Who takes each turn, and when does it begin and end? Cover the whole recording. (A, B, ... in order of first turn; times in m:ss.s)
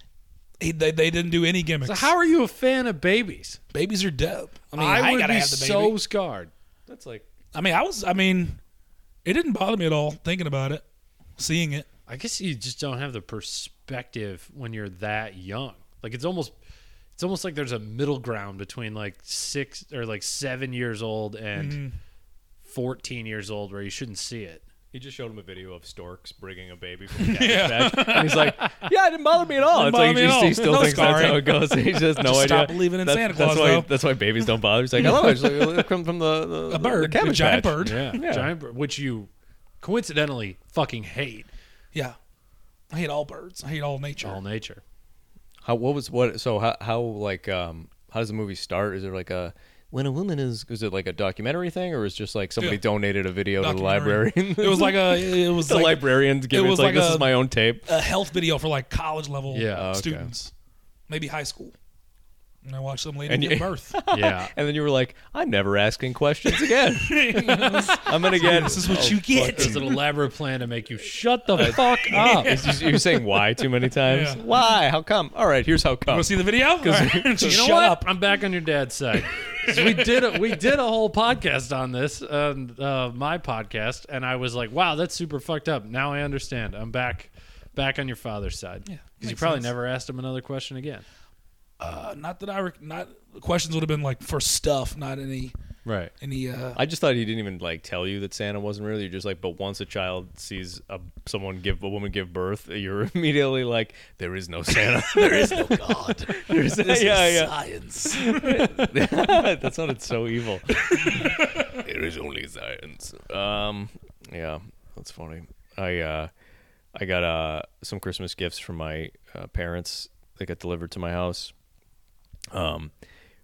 0:00.6-0:02.1 A
0:01.8-0:03.6 B
0:03.7-0:06.0 A
0:04.7-0:06.5 B
0:06.9-0:07.3 C
0:07.5-0:08.6 A
0:09.2-0:10.8 A
0:11.4-0:11.9 A
0:12.1-0:16.6 B
0:17.2-0:21.8 B
0:21.6-0:22.0 A
0:22.6-0:24.6 B
0:24.9-0:38.5 C
0:27.2-0:28.6 A
0:29.7-0:33.9 A
0:35.1-0:35.7 A
0:36.7-0:38.1 A
0:37.8-0:39.3 B
0:39.8-0:41.5 B
0:42.9-0:44.4 A
0:44.2-0:44.8 B
0:45.6-0:57.9 C
0:53.6-1:00.5 A
0:59.5-1:00.0 B
0:59.7-1:00.3 C
1:01.1-1:01.8 A
1:02.6-1:04.0 A
1:03.3-1:10.0 C
1:04.1-1:04.5 B
1:06.6-1:10.0 A
1:09.5-1:12.6 B
1:11.6-1:17.7 C
1:12.1-1:13.2 A
1:14.0-1:14.4 A
1:16.1-1:18.1 A
1:17.5-1:31.0 B
1:19.6-1:20.0 A
1:28.9-1:29.7 A
1:31.8-1:35.5 A
1:35.8-1:36.1 B
1:36.2-1:36.8 A
1:36.8-1:47.5 C
1:45.3-1:48.8 A
1:48.0-1:56.3 C
1:50.9-1:51.8 A
1:56.9-2:01.5 C
2:02.5-2:02.9 C